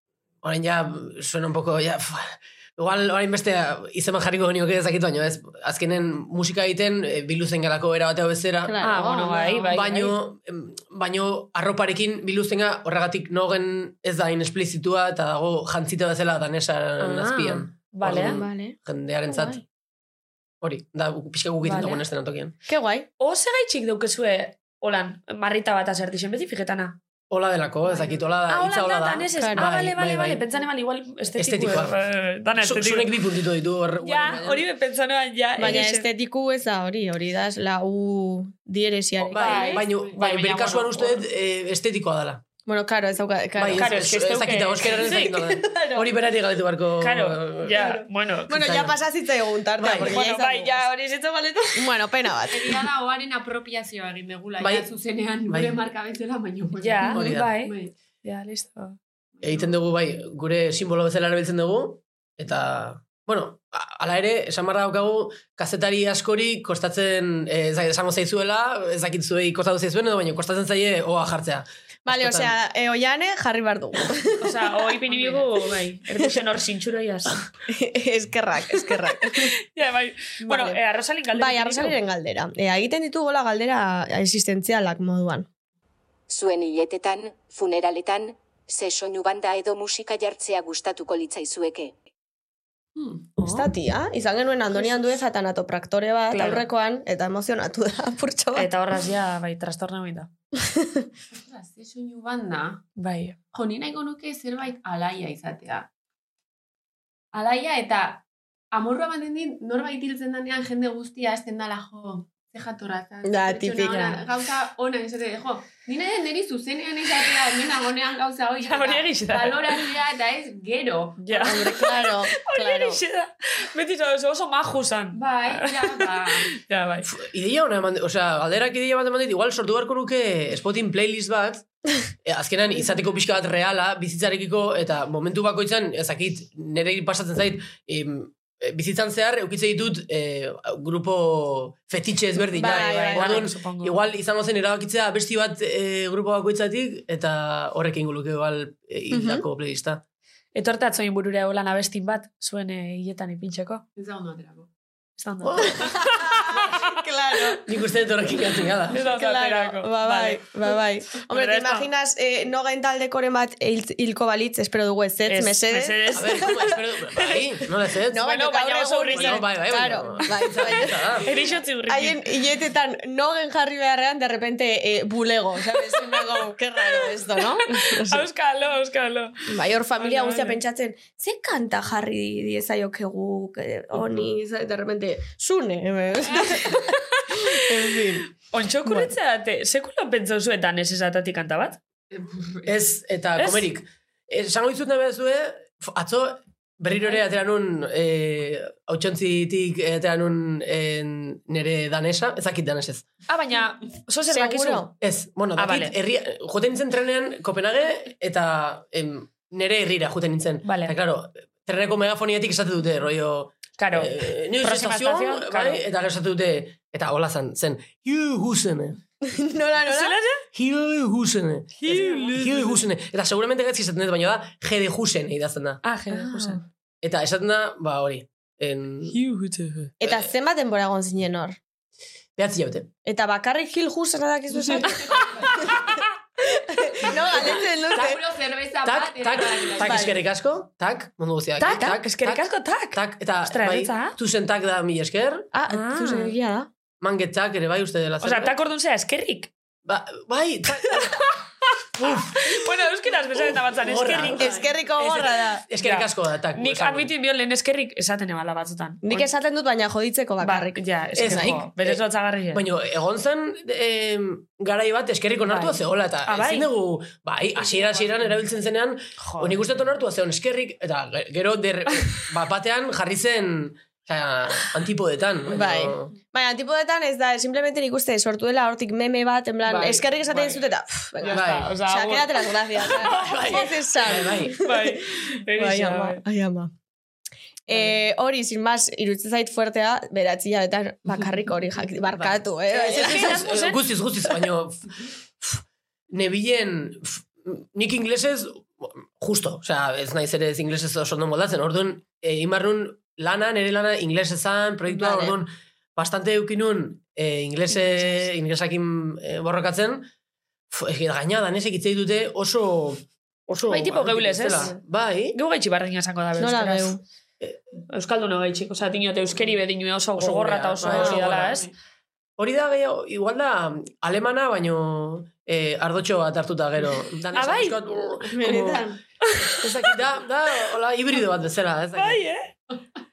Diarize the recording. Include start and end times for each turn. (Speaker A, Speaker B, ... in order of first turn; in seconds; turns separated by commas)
Speaker A: 0.4-8.8, Speaker B: 8.6-9.7, Speaker C: 8.8-10.2, Speaker A: 9.7-19.6, Speaker C: 17.0-18.4, Speaker B: 18.0-18.8, Speaker B: 19.3-19.6, Speaker A: 20.6-22.5, Speaker C: 21.6-22.0, Speaker B: 22.7-23.1, Speaker C: 23.2-27.0, Speaker A: 27.3-30.4, Speaker D: 27.8-28.3, Speaker C: 28.5-33.2, Speaker B: 29.4-29.7, Speaker A: 31.4-32.0, Speaker A: 32.6-34.6, Speaker C: 34.0-36.1, Speaker B: 35.6-39.8, Speaker A: 39.2-42.4, Speaker C: 39.4-41.1, Speaker D: 39.4-40.4, Speaker B: 42.7-44.1, Speaker A: 43.6-47.8, Speaker C: 43.8-45.3, Speaker B: 44.9-46.1, Speaker C: 47.0-48.8, Speaker B: 48.5-50.9, Speaker A: 48.5-49.0, Speaker A: 49.8-50.2, Speaker C: 50.0-52.0, Speaker B: 51.8-52.9, Speaker D: 52.5-57.9, Speaker A: 54.6-54.9, Speaker A: 55.5-55.8, Speaker C: 56.8-59.0, Speaker A: 57.1-57.5, Speaker D: 59.4-59.8, Speaker A: 59.4-72.5, Speaker B: 72.1-74.7, Speaker C: 74.4-77.4, Speaker D: 75.1-75.4, Speaker B: 77.7-79.5, Speaker C: 79.7-82.0, Speaker B: 80.4-80.8, Speaker B: 81.3-85.5, Speaker E: 86.3-92.0, Speaker D: 93.0-93.4, Speaker B: 93.4-98.7, Speaker D: 94.8-95.1, Speaker C: 96.3-96.6, Speaker C: 98.5-100.3, Speaker B: 100.6-101.1, Speaker D: 101.3-102.8, Speaker C: 103.0-103.4, Speaker D: 103.5-105.9, Speaker D: 107.3-121.8, Speaker B: 113.2-114.1, Speaker C: 113.9-114.1, Speaker C: 118.6-119.9, Speaker C: 121.2-127.1, Speaker B: 121.4-123.0, Speaker D: 125.1-126.5, Speaker A: 127.1-131.7, Speaker A: 132.2-150.0, Speaker D: 132.8-133.1, Speaker B: 142.5-143.4, Speaker C: 142.6-144.0, Speaker B: 149.1-149.4, Speaker C: 150.5-153.8, Speaker D: 154.0-154.7, Speaker C: 155.2-156.9, Speaker A: 155.4-156.1, Speaker B: 155.8-157.6, Speaker A: 157.7-159.0, Speaker C: 158.9-160.5, Speaker B: 158.9-166.5, Speaker C: 161.3-161.9, Speaker C: 165.3-167.4, Speaker A: 166.1-168.3, Speaker B: 168.1-171.3, Speaker C: 168.2-169.4, Speaker A: 169.1-171.3, Speaker C: 171.2-172.2, Speaker B: 171.9-178.3, Speaker C: 177.4-180.6, Speaker B: 179.5-188.3, Speaker C: 186.4-187.7, Speaker C: 188.5-191.8, Speaker B: 188.8-189.1, Speaker D: 192.1-192.7, Speaker A: 192.7-203.1, Speaker C: 193.4-193.7, Speaker C: 203.3-204.9, Speaker B: 204.3-204.9, Speaker A: 205.0-219.0, Speaker C: 205.6-205.9, Speaker C: 210.7-210.9, Speaker C: 213.8-215.8, Speaker B: 219.2-220.2, Speaker C: 219.9-220.4, Speaker A: 220.5-225.8, Speaker C: 221.8-222.8, Speaker C: 225.8-226.6, Speaker B: 226.1-226.6, Speaker A: 227.0-229.2, Speaker C: 229.1-229.9, Speaker B: 230.0-231.6, Speaker A: 232.4-232.9, Speaker B: 233.1-235.9, Speaker D: 234.6-235.6, Speaker B: 236.4-238.2, Speaker D: 237.9-240.2, Speaker A: 238.8-245.5, Speaker B: 239.8-240.2, Speaker C: 241.6-244.2, Speaker B: 245.5-246.7, Speaker C: 245.7-246.3, Speaker A: 247.0-248.6, Speaker C: 248.2-249.5, Speaker A: 249.9-251.3, Speaker C: 251.1-251.4, Speaker A: 252.0-252.5, Speaker C: 252.0-254.5, Speaker A: 253.4-257.1, Speaker B: 254.3-255.6, Speaker C: 255.8-259.3, Speaker B: 259.0-261.6, Speaker C: 260.4-262.6, Speaker A: 261.2-262.0, Speaker A: 262.5-276.1, Speaker C: 265.5-266.7, Speaker D: 267.6-268.4, Speaker C: 269.2-269.6, Speaker B: 275.5-286.7, Speaker C: 279.7-280.6, Speaker C: 281.2-283.6, Speaker A: 281.3-281.7, Speaker A: 283.0-284.6, Speaker C: 284.6-286.2, Speaker B: 287.7-293.4, Speaker A: 292.1-294.9, Speaker C: 292.7-293.8, Speaker A: 295.4-310.1, Speaker B: 304.9-305.4, Speaker A: 310.7-315.4, Speaker C: 313.7-314.7, Speaker C: 315.3-317.0, Speaker B: 316.4-317.0, Speaker C: 317.9-321.7, Speaker A: 320.2-321.6, Speaker B: 320.9-321.2, Speaker D: 321.3-321.6, Speaker A: 322.4-328.9, Speaker C: 327.3-327.8, Speaker B: 328.4-329.0, Speaker C: 329.2-329.7, Speaker A: 329.6-332.2, Speaker C: 332.0-332.5